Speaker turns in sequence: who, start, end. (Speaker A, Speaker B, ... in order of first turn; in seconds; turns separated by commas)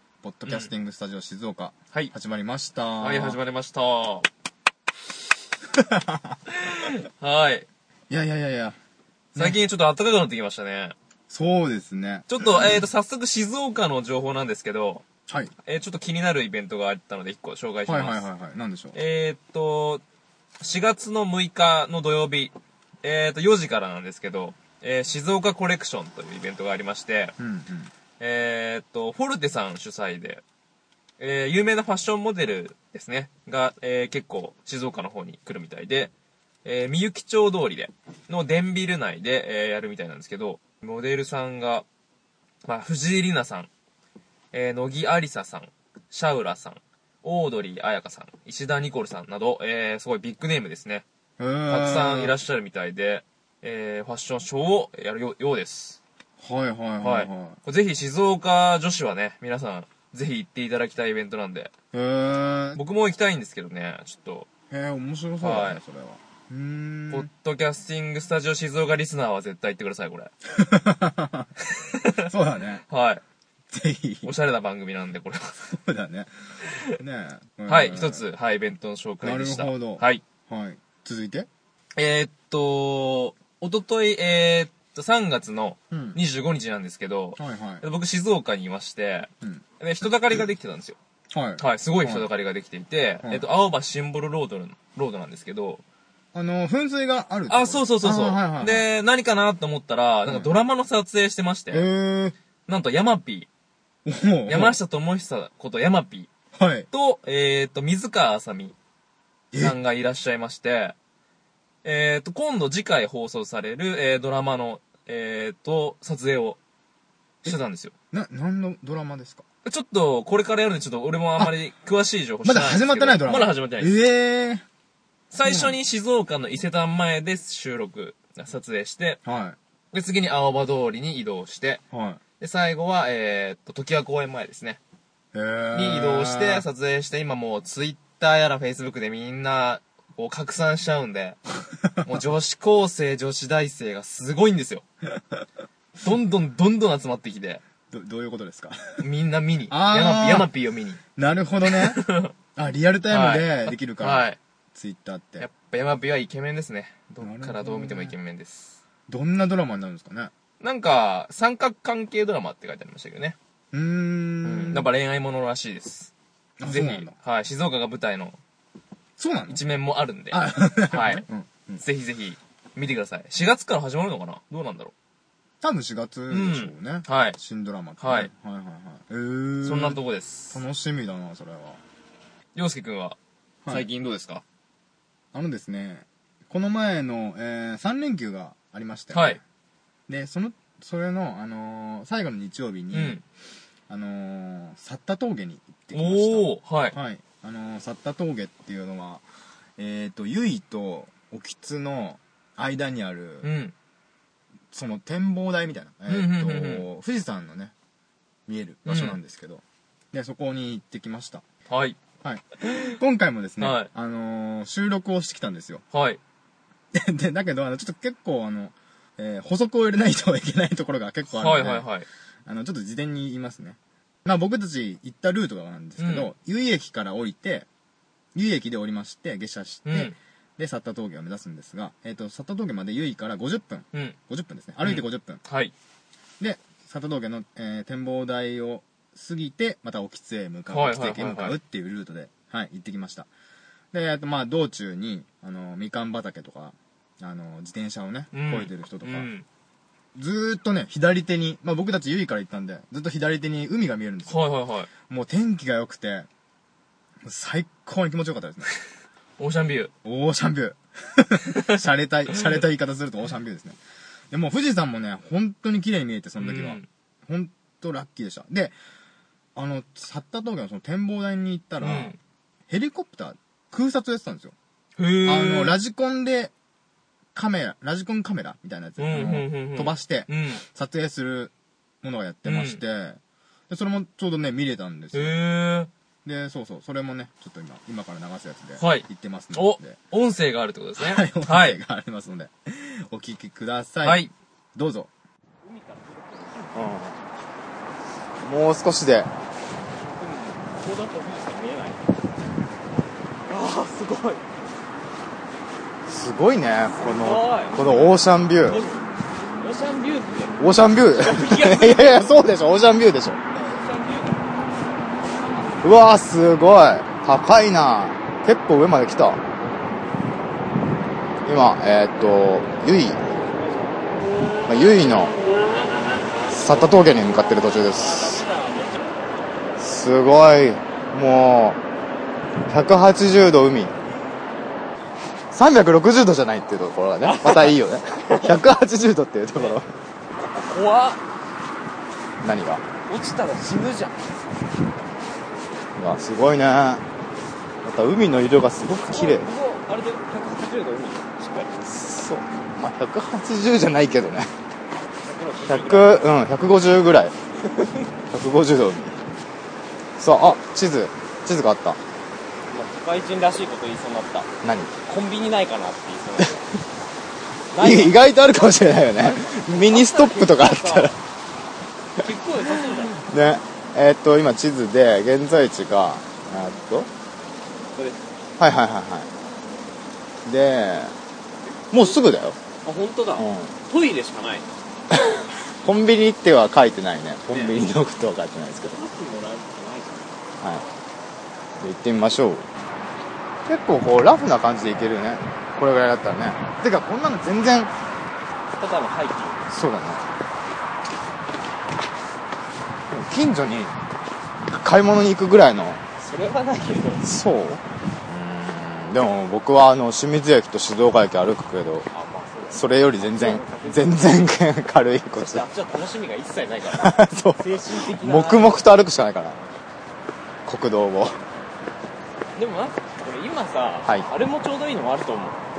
Speaker A: 0.2-3.4, Speaker B: 0.5-0.7, Speaker B: 3.0-4.3, Speaker A: 5.7-6.4, Speaker B: 6.5-7.7, Speaker A: 8.1-8.8, Speaker B: 9.3-10.9, Speaker A: 11.3-12.8, Speaker B: 12.3-15.0, Speaker B: 15.6-18.2, Speaker A: 17.9-18.9, Speaker B: 18.9-20.0, Speaker B: 20.6-27.4, Speaker A: 27.4-27.9, Speaker B: 28.2-30.4, Speaker B: 31.2-36.1, Speaker B: 36.6-41.8, Speaker B: 42.6-43.7, Speaker B: 44.5-51.0, Speaker A: 51.4-52.3, Speaker B: 51.7-56.0, Speaker A: 56.4-57.5, Speaker B: 57.0-61.7, Speaker A: 61.9-62.8, Speaker B: 62.7-64.5, Speaker A: 64.7-67.3, Speaker B: 65.4-65.8, Speaker B: 67.1-70.3, Speaker A: 70.5-71.5, Speaker B: 71.7-72.3, Speaker A: 72.2-72.8, Speaker B: 72.9-73.2, Speaker A: 73.7-74.3, Speaker B: 74.2-75.5, Speaker A: 75.7-76.3, Speaker B: 76.6-77.0, Speaker A: 77.0-78.2, Speaker B: 77.7-80.2, Speaker A: 79.2-81.5, Speaker B: 82.0-91.0, Speaker A: 85.9-86.2, Speaker A: 87.4-87.8, Speaker A: 91.3-92.3, Speaker B: 91.6-95.8, Speaker A: 96.3-98.9, Speaker B: 97.5-101.9, Speaker A: 100.2-100.5, Speaker A: 101.7-102.3, Speaker B: 102.7-103.5, Speaker A: 104.0-104.8, Speaker B: 104.5-106.3, Speaker A: 106.5-106.9, Speaker B: 106.9-108.7, Speaker A: 109.5-109.8, Speaker B: 109.6-110.9, Speaker B: 111.8-116.6, Speaker B: 117.4-117.9, Speaker A: 118.1-119.4, Speaker B: 119.6-124.0, Speaker A: 122.4-124.6, Speaker B: 125.3-129.2, Speaker A: 125.4-125.8, Speaker A: 129.2-129.6, Speaker B: 129.9-131.8, Speaker A: 131.9-132.2, Speaker B: 132.4-134.8, Speaker A: 135.3-136.7, Speaker B: 135.7-141.4, Speaker B: 141.9-144.8, Speaker B: 146.0-147.6, Speaker A: 147.9-149.0, Speaker B: 149.0-151.0, Speaker A: 149.7-150.5, Speaker A: 151.2-152.0, Speaker B: 151.7-152.3, Speaker A: 152.5-155.5, Speaker B: 153.1-154.4, Speaker B: 155.4-158.8, Speaker A: 157.2-158.2, Speaker A: 159.1-160.3, Speaker B: 160.6-163.3, Speaker A: 163.7-164.9, Speaker B: 164.4-168.4, Speaker A: 166.6-167.1, Speaker A: 169.2-169.6, Speaker B: 169.5-171.2, Speaker A: 170.3-171.8, Speaker B: 171.8-174.9, Speaker A: 175.6-180.0, Speaker B: 176.3-177.4, Speaker B: 178.0-178.3, Speaker B: 179.6-180.6, Speaker A: 180.5-181.8, Speaker B: 182.5-183.2, Speaker B: 183.7-184.4, Speaker A: 185.3-189.4, Speaker B: 189.1-189.4, Speaker A: 190.1-193.2, Speaker B: 192.9-193.2, Speaker A: 193.9-199.2, Speaker B: 195.9-196.9, Speaker A: 199.8-203.5, Speaker B: 203.4-203.7, Speaker A: 204.7-207.7, Speaker B: 206.1-206.8, Speaker A: 208.5-211.4, Speaker B: 208.9-209.2, Speaker B: 211.7-212.0, Speaker A: 212.2-215.8, Speaker B: 212.6-213.0, Speaker B: 213.6-213.9, Speaker B: 215.9-216.2, Speaker A: 216.9-221.9, Speaker B: 221.3-222.1, Speaker A: 222.4-227.7, Speaker B: 226.0-226.3, Speaker A: 228.3-235.4, Speaker B: 229.8-230.2, Speaker B: 234.8-235.7, Speaker A: 236.4-243.3, Speaker B: 240.7-241.6, Speaker A: 243.9-249.3, Speaker B: 248.3-249.4, Speaker A: 250.1-254.4, Speaker B: 254.3-254.9, Speaker A: 255.1-256.3, Speaker A: 257.2-258.7, Speaker B: 259.4-259.9, Speaker A: 260.0-263.8, Speaker A: 264.3-268.7, Speaker B: 266.4-266.9, Speaker A: 269.5-272.1, Speaker B: 271.8-272.2, Speaker A: 272.7-274.5, Speaker B: 275.0-275.8, Speaker A: 275.2-276.5, Speaker A: 277.3-285.3, Speaker B: 279.0-280.6, Speaker B: 282.4-282.8, Speaker B: 285.1-285.9, Speaker A: 286.2-290.0, Speaker B: 288.8-291.8, Speaker A: 291.0-294.2, Speaker B: 294.0-294.3, Speaker A: 294.8-295.1, Speaker C: 295.6-297.1, Speaker A: 296.7-297.1, Speaker A: 298.4-299.3, Speaker C: 299.9-302.1, Speaker C: 303.5-304.4, Speaker A: 306.1-308.8, Speaker C: 306.9-309.1, Speaker C: 309.6-310.6, Speaker A: 310.6-313.4, Speaker C: 311.1-312.3, Speaker C: 313.5-314.5, Speaker A: 315.8-319.4, Speaker A: 321.4-323.2, Speaker C: 323.4-324.1, Speaker A: 324.7-325.4, Speaker A: 326.5-328.4, Speaker C: 327.8-329.4, Speaker A: 329.8-331.8, Speaker A: 332.7-333.9, Speaker A: 335.5-339.9, Speaker C: 337.2-338.6, Speaker C: 339.5-339.8, Speaker C: 340.4-341.2, Speaker A: 342.4-342.8, Speaker C: 343.1-344.3, Speaker A: 346.0-347.0, Speaker A: 347.8-349.5, Speaker C: 349.0-352.0, Speaker A: 351.9-354.5, Speaker C: 355.2-356.3, Speaker A: 355.7-357.3, Speaker C: 357.6-358.1, Speaker A: 358.3-359.1, Speaker A: 360.2-362.0, Speaker C: 362.7-364.5, Speaker A: 364.6-364.9, Speaker C: 365.1-366.6, Speaker C: 367.7-368.2, Speaker A: 367.8-371.2, Speaker C: 369.1-371.1, Speaker C: 372.1-373.2, Speaker A: 373.1-377.1, Speaker C: 377.9-378.2, Speaker A: 378.6-379.3, Speaker A: 380.4-381.1, Speaker C: 381.7-382.1, Speaker A: 381.9-382.6, Speaker C: 382.8-384.7, Speaker A: 383.4-383.7, Speaker A: 385.1-389.0, Speaker C: 387.5-387.8, Speaker C: 388.9-390.4, Speaker A: 391.8-392.6, Speaker A: 393.7-397.9, Speaker C: 398.7-399.9, Speaker A: 399.7-400.2, Speaker A: 403.1-403.9, Speaker A: 404.7-406.0, Speaker C: 406.2-407.3, Speaker A: 407.2-412.1, Speaker C: 412.1-414.5, Speaker A: 412.7-415.6, Speaker C: 415.4-418.9, Speaker A: 416.9-419.6, Speaker A: 420.6-421.4, Speaker C: 422.6-425.6